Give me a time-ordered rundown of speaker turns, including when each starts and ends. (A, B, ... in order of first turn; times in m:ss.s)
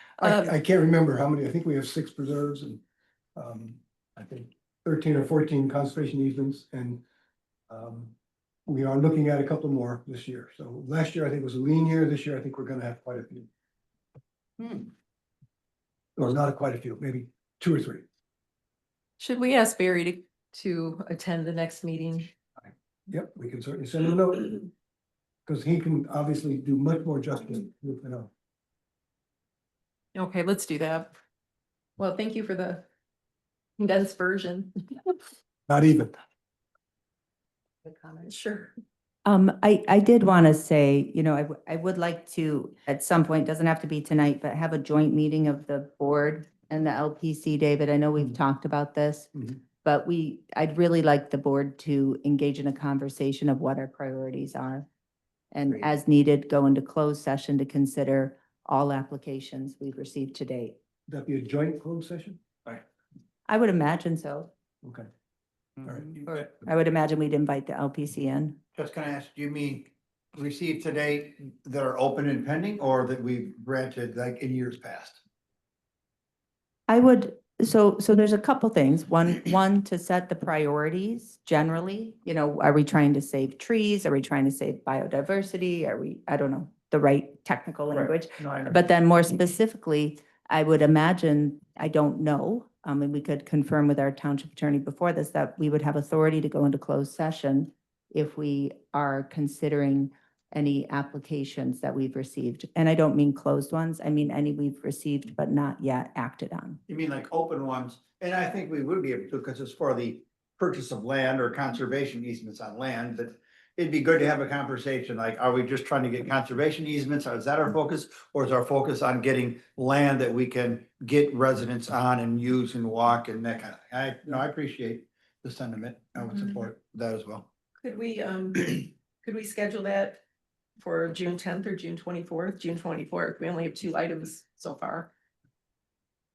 0:00.2-0:02.8 A
0:00.2-0:00.5 B
0:03.4-0:07.0 A
0:07.7-0:08.1 A
0:08.6-0:13.5 A
0:16.2-0:18.0 A
0:19.2-0:22.3 B
0:23.1-0:24.7 A
0:25.4-0:28.3 A
0:30.1-0:31.1 B
0:32.0-0:32.8 B
0:33.8-0:35.2 B
0:35.7-0:36.2 A
0:37.8-0:38.2 C
0:38.2-0:38.7 B
0:39.2-0:54.8 C
0:55.5-1:00.8 C
1:01.1-1:02.4 A
1:03.5-1:04.5 C
1:05.8-1:06.2 A
1:06.2-1:08.6 C
1:08.7-1:15.2 D
1:16.9-1:46.8 C
1:46.9-2:07.5 D
2:07.8-2:10.2 B
2:10.8-2:15.1 B